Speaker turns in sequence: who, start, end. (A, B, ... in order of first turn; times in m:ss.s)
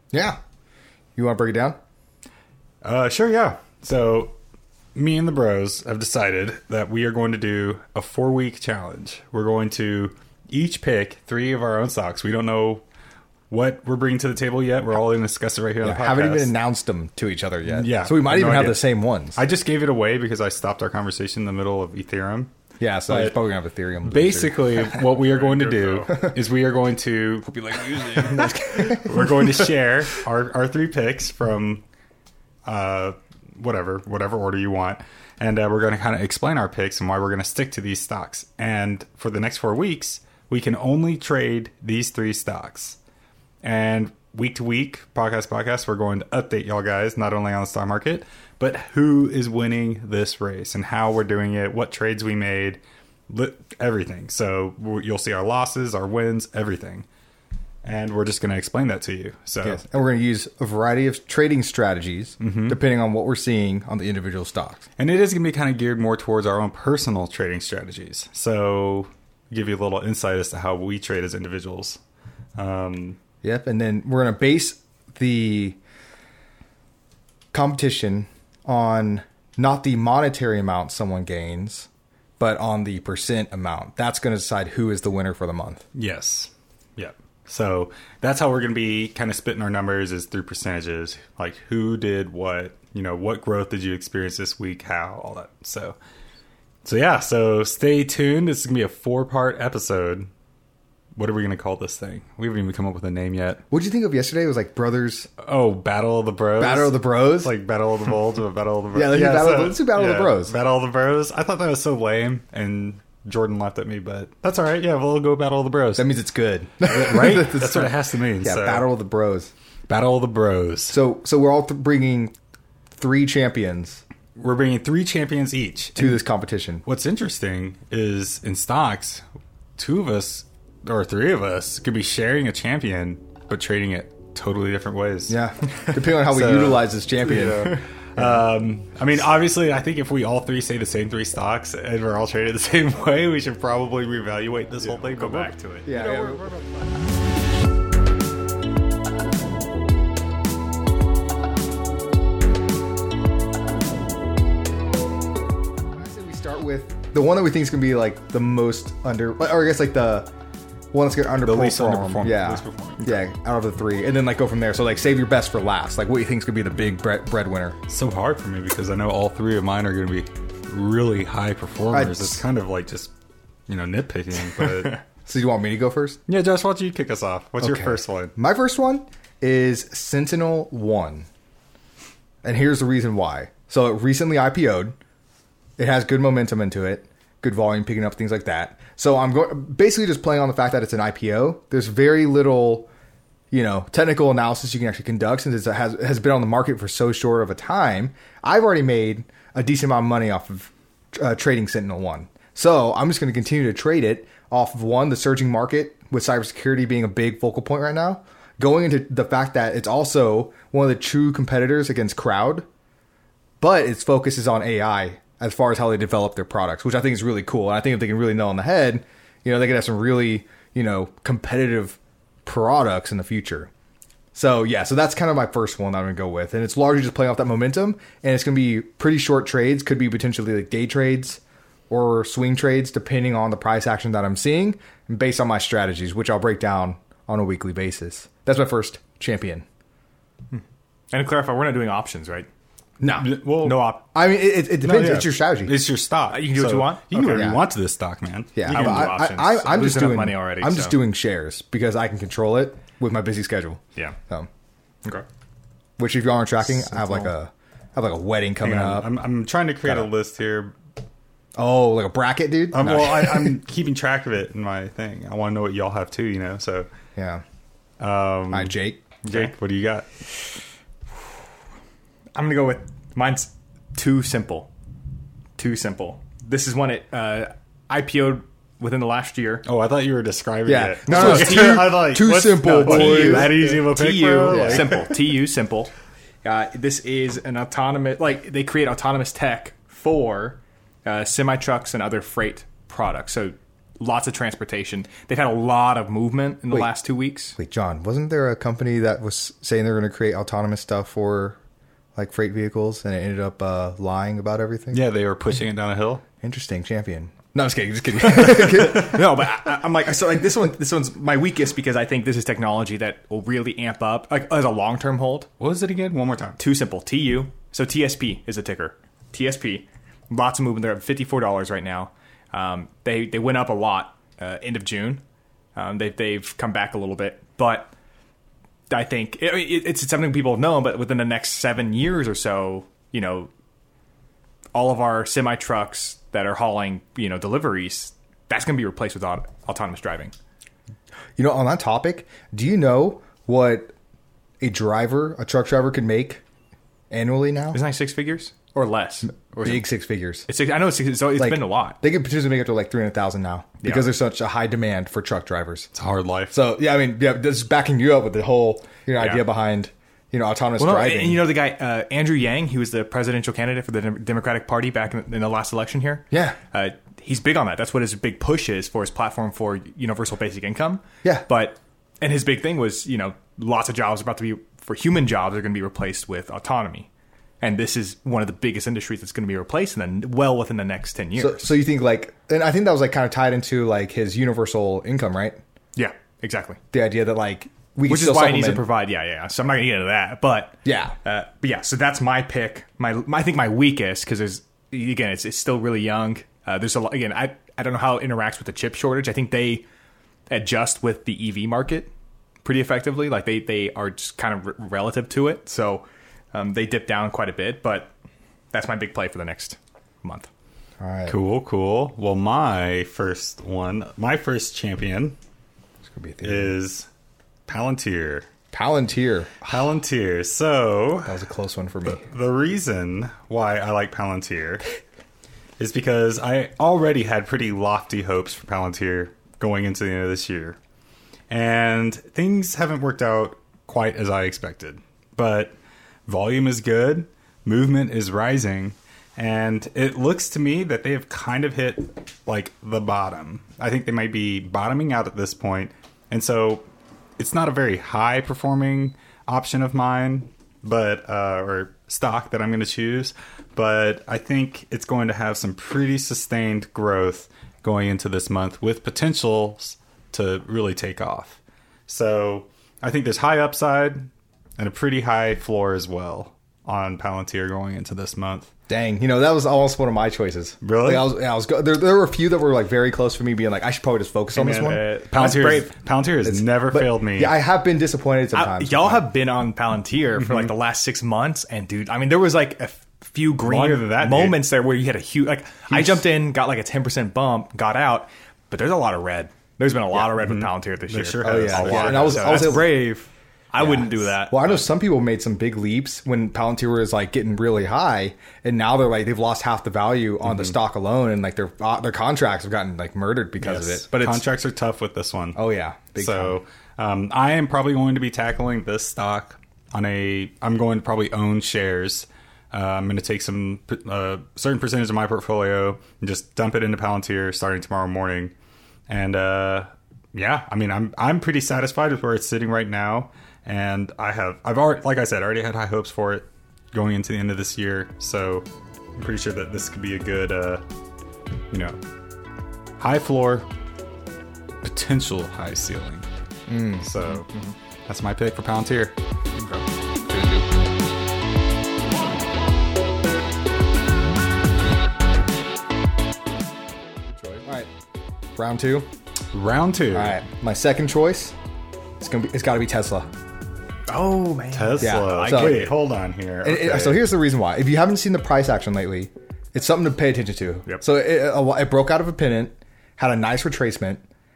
0:00.1-0:00.4 A
0:01.2-0:01.8 A
0:02.8-0:04.3 B
0:04.9-0:12.8 B
0:13.5-0:16.5 B
0:15.8-0:19.4 A
0:17.6-0:22.5 B
0:22.8-0:25.0 A
0:23.1-0:23.3 B
0:24.0-0:31.8 B
0:25.2-0:26.3 C
0:27.4-0:29.7 C
0:28.3-0:29.0 A
0:32.7-0:43.0 B
0:43.6-0:57.0 B
0:57.8-0:59.8 B
0:59.6-1:04.8 A
1:02.4-1:02.8 B
1:05.0-1:12.0 B
1:12.6-1:13.2 B
1:13.4-1:15.8 A
1:17.5-1:21.9 A
1:22.4-1:25.8 A
1:25.9-1:36.0 B
1:36.8-1:40.3 B
1:41.2-1:43.6 B
1:43.7-1:45.3 A
1:45.4-1:56.1 B
1:46.6-1:47.5 A
1:48.9-1:50.5 A
1:56.0-1:59.5 A
1:56.8-1:58.8 B
1:59.9-2:01.0 B
2:00.9-2:02.3 A
2:02.9-2:04.0 A
2:04.4-2:06.2 B
2:06.0-2:06.8 A
2:06.8-2:09.2 B
2:09.8-2:27.0 B
2:15.3-2:18.4 A
2:24.8-2:25.9 C
2:25.8-2:26.4 A
2:35.9-2:40.3 A
2:40.9-2:47.8 A
2:41.4-2:43.2 B
2:47.9-2:53.1 B
2:51.9-2:52.4 A
2:53.7-2:55.0 B
2:55.2-2:56.2 A
2:56.3-2:58.3 B
2:57.6-3:01.3 A
3:02.4-3:05.0 A
3:05.8-3:12.9 A
3:13.5-3:32.7 A
3:33.6-3:43.7 A
3:44.3-3:59.6 A
4:00.5-4:02.5 C
4:03.0-4:05.8 A
4:03.1-4:03.9 B
4:03.6-4:04.0 C
4:04.8-4:09.1 B
4:06.3-4:07.5 C
4:07.3-4:07.6 A
4:08.5-4:14.5 A
4:08.7-4:10.9 C
4:16.0-4:19.1 A
4:16.8-4:17.3 C
4:18.6-4:20.7 B
4:21.6-4:23.6 A
4:22.7-4:26.9 B
4:27.2-4:27.4 A
4:28.0-4:30.1 B
4:28.5-4:29.2 A
4:32.3-4:34.7 C
4:35.6-4:39.6 C
4:39.6-4:45.1 B
4:40.6-4:43.6 A
4:41.1-4:45.9 C
4:44.5-4:44.9 A
4:46.4-4:57.6 C
4:57.6-5:01.6 A
5:02.1-5:05.0 A
5:04.9-5:06.2 B
5:06.4-5:09.5 A
5:08.2-5:15.5 C
5:15.6-5:16.6 B
5:16.6-5:25.2 C
5:25.8-5:27.9 C
5:28.9-5:33.5 C
5:34.7-5:40.3 C
5:41.4-5:43.9 A
5:44.6-5:46.4 A
5:47.1-5:47.8 A
5:47.7-5:49.9 C
5:49.6-5:50.5 A
5:50.5-5:52.0 C
5:51.4-5:55.9 A
5:55.9-5:56.5 B
5:56.5-6:01.5 A
5:59.2-5:59.4 C
6:00.8-6:17.1 C
6:06.3-6:06.6 A
6:17.6-6:21.7 C
6:21.4-6:25.6 A
6:26.0-6:26.8 C
6:26.9-6:28.8 A
6:28.1-6:39.8 C
6:30.8-6:31.2 A
6:40.5-6:42.1 C
6:42.6-6:48.1 C
6:48.7-6:50.5 C
6:51.0-6:51.4 A
6:51.3-6:55.4 B
6:56.0-6:56.7 A
6:56.4-6:57.1 B
6:57.7-6:58.4 B
6:58.7-6:59.8 A
6:59.6-7:01.4 B
7:01.2-7:02.2 A
7:02.0-7:04.8 B
7:05.8-7:10.8 B
7:11.5-7:15.8 B
7:16.3-7:26.8 B
7:27.4-7:48.7 B
7:48.9-7:55.0 A
7:50.8-7:51.3 B
7:54.5-7:55.9 C
7:55.3-7:57.6 B
7:56.4-7:59.2 A
7:58.5-8:14.8 C
8:00.4-8:00.7 B
8:03.6-8:04.6 B
8:05.9-8:06.2 A
8:10.1-8:12.9 B
8:11.4-8:13.0 A
8:13.8-8:24.4 A
8:20.4-8:20.7 B
8:23.6-8:24.0 C
8:23.6-8:25.6 B
8:25.5-8:26.6 A
8:26.2-8:38.5 B
8:39.1-8:50.8 B
8:51.7-8:52.0 B
8:53.0-8:53.7 B
8:54.8-8:56.3 B
8:56.7-8:57.1 A
8:57.0-8:57.5 B
8:58.1-8:59.1 B
9:00.3-9:00.6 A
9:07.3-9:07.9 A
9:08.5-9:09.1 A
9:09.5-9:10.4 B
9:10.1-9:11.6 A
9:12.2-9:13.3 A
9:14.1-9:15.9 C
9:14.7-9:17.2 B
9:15.0-9:15.9 A
9:16.6-9:24.2 A